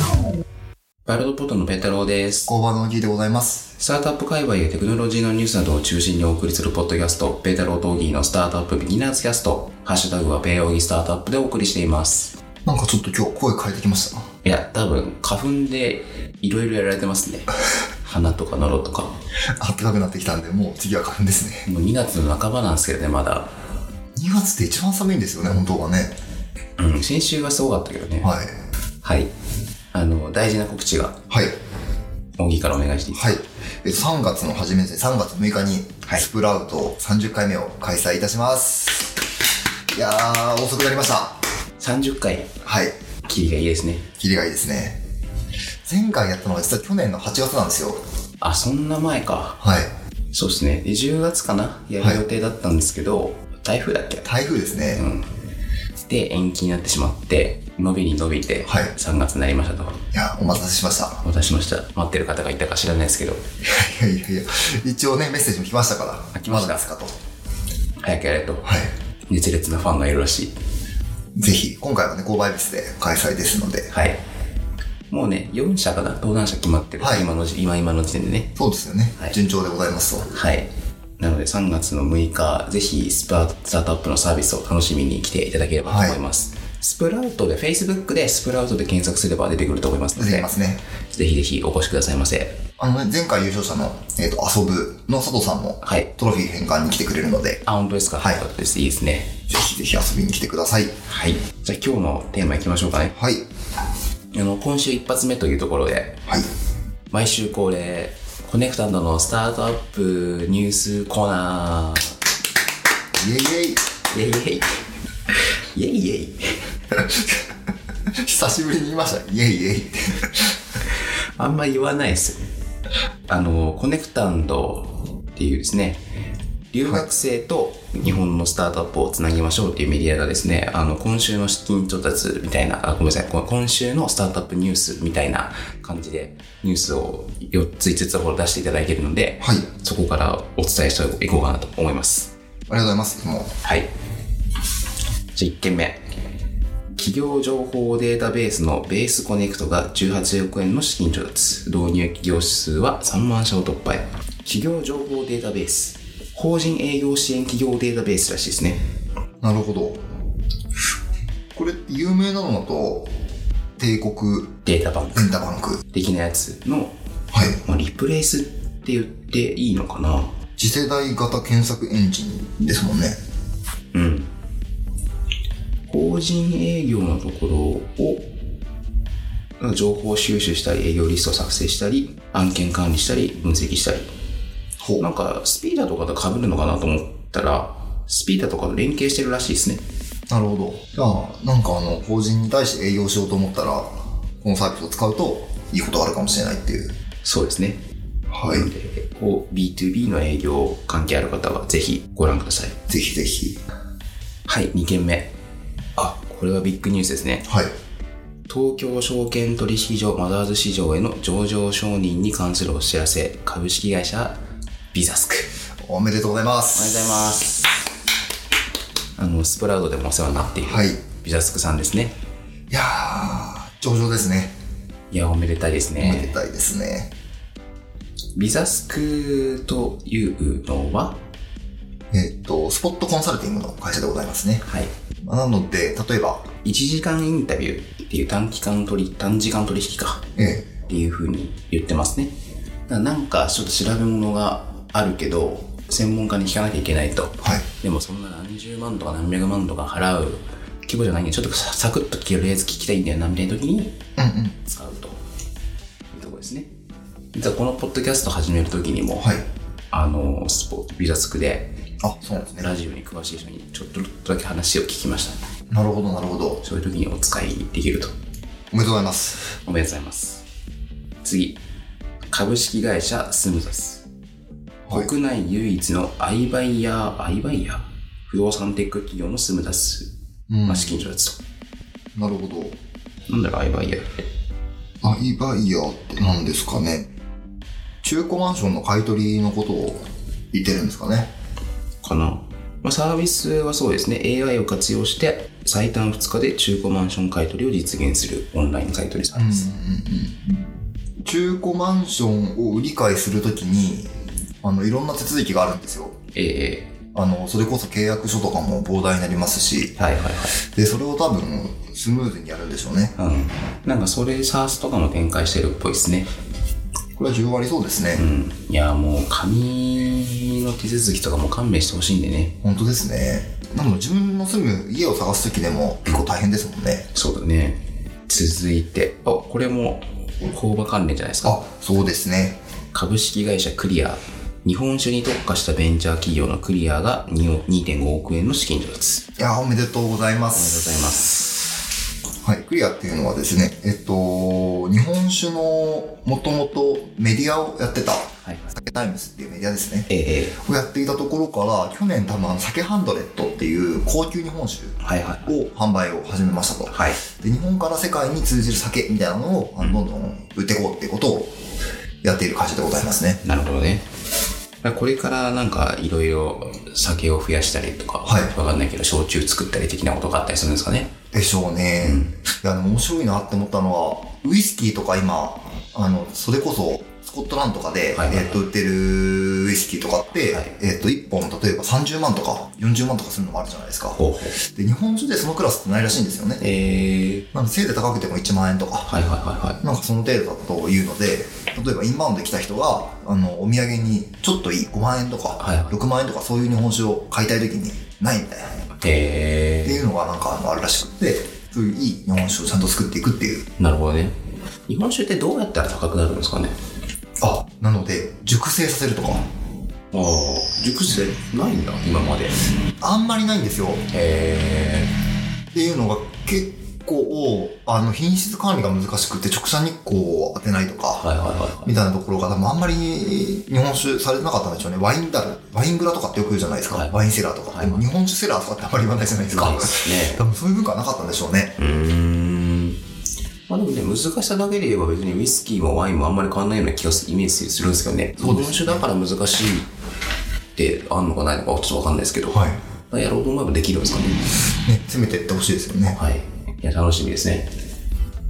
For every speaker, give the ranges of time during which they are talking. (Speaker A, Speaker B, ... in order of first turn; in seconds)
Speaker A: 1.1-2.5, 3.8-12.3, 14.4-17.5, 18.0-19.1, 21.6-23.5, 26.8-28.3, 29.0-29.3, 29.9-31.2, 32.4-33.4, 41.8-42.5, 43.2-44.1, 48.4-49.6, 50.3-54.3, 55.0-55.3, 56.0-60.0, 61.2-63.4, 66.3-66.9, 68.0-68.7, 69.3-70.5, 73.9-74.2, 75.1-78.5, 80.3-90.6, 91.1-92.6, 95.8-96.1, 97.6-99.4, 101.1-103.1, 104.3-106.2, 107.1-112.1, 114.1-114.8, 115.7-116.6, 121.4-122.4, 123.3-126.0, 126.7-142.3, 143.6-143.9, 145.3-146.0, 147.0-158.8, 164.6-165.3, 165.9-166.9, 167.6-170.3, 173.9-174.3, 175.9-178.3, 179.6-184.1, 185.0-189.8, 197.2-197.8, 198.4-202.8, 204.5-205.3, 206.0-207.5, 208.5-214.4, 214.9-215.5, 216.7-217.7, 219.2-222.1, 225.1-226.4, 228.3-231.2, 234.7-234.9, 236.6-240.2, 240.8-242.3, 242.9-254.0, 254.6-255.2, 256.1-256.7, 257.3-259.3, 259.9-261.7, 262.3-265.4, 266.6-268.1, 269.6-270.4, 271.2-271.6, 272.3-274.0, 274.9-280.1, 280.6-281.4, 283.3-284.1, 292.0-299.7, 306.3-306.9, 309.9-310.6, 313.1-316.3, 318.1-322.6, 327.1-331.6, 332.9-339.3, 340.5-341.6, 348.4-348.7, 350.1-350.6, 355.0-355.5, 356.9-357.2, 363.4-364.1, 364.8-371.1, 372.0-372.3, 378.1-378.6, 380.5-380.7, 384.1-384.6, 386.6-387.4, 389.1-389.8, 395.6-396.0, 399.0-400.0, 403.8-404.3, 404.9-406.7, 410.1-412.6, 414.1-415.1, 421.2-421.9, 426.9-428.0, 429.5-430.4, 431.8-433.0, 433.7-439.9, 440.8-444.5, 446.1-447.7
Speaker B: 2.5-3.7, 12.7-14.2, 19.6-21.6, 24.1-26.1, 28.2-28.5, 33.1-39.2, 39.9-41.4, 42.6-42.9, 44.2-45.0, 45.9-48.0, 49.6-49.9, 54.2-55.0, 58.6-58.9, 60.1-61.2, 63.6-67.1, 71.3-73.9, 77.0-77.3, 78.6-80.3, 85.8-86.2, 90.2-90.8, 92.8-97.6, 99.5-100.9, 103.1-103.4, 113.2-113.8, 117.0-117.5, 118.2-120.6, 142.7-143.5, 159.4-160.0, 161.5-163.1, 163.8-164.6, 165.1-165.8, 170.6-173.2, 184.8-185.1, 190.3-196.9, 198.3-198.7, 202.9-203.6, 215.8-217.4, 220.6-221.0, 222.7-224.5, 226.0-227.1, 232.1-234.6, 235.2-236.5, 240.4-240.7, 254.2-254.6, 259.2-259.4, 262.0-262.7, 265.7-266.6, 268.7-269.5, 280.5-281.1, 282.1-282.8, 285.0-287.1, 288.0-290.0, 290.5-291.3, 299.3-300.7, 301.2-304.1, 304.6-306.1, 307.1-310.0, 310.7-313.1, 317.1-318.2, 322.6-327.1, 331.4-332.6, 339.4-340.9, 342.4-354.9, 355.4-361.5, 362.2-363.4, 368.2-368.5, 371.3-386.6, 387.5-389.1, 389.8-398.8, 399.8-403.6, 407.4-409.4, 413.0-414.0, 415.7-421.2, 421.8-431.8, 438.4-439.1, 442.5-442.8, 444.7-446.2